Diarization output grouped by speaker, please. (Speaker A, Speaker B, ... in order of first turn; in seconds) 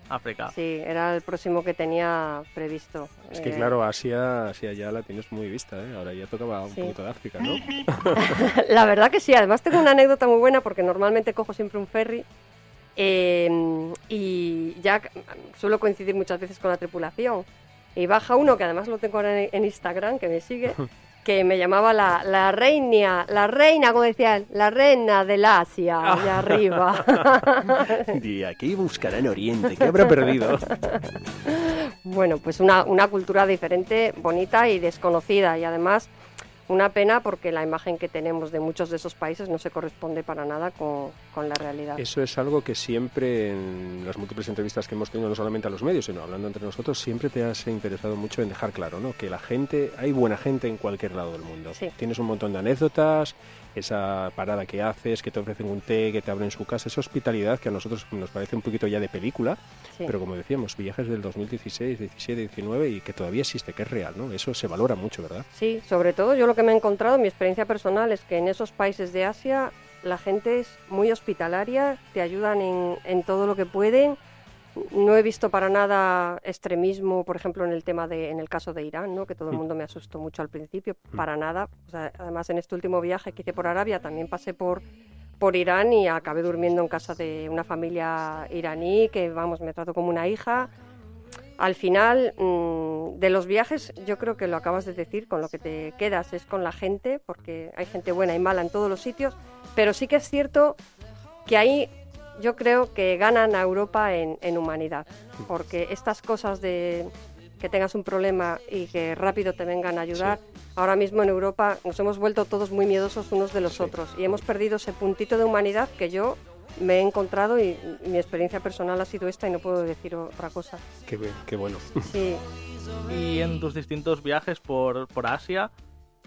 Speaker A: 0.1-0.5, 123.1-125.7
Speaker B: 0.5-3.7, 8.0-12.2, 13.0-28.2, 30.8-36.1, 36.7-42.0, 65.5-74.2, 74.8-84.8, 85.4-90.7, 91.6-100.8, 101.5-120.8, 122.0-122.4
Speaker C: 3.3-8.4, 26.0-30.7, 42.0-65.5, 113.7-113.9, 121.1-122.1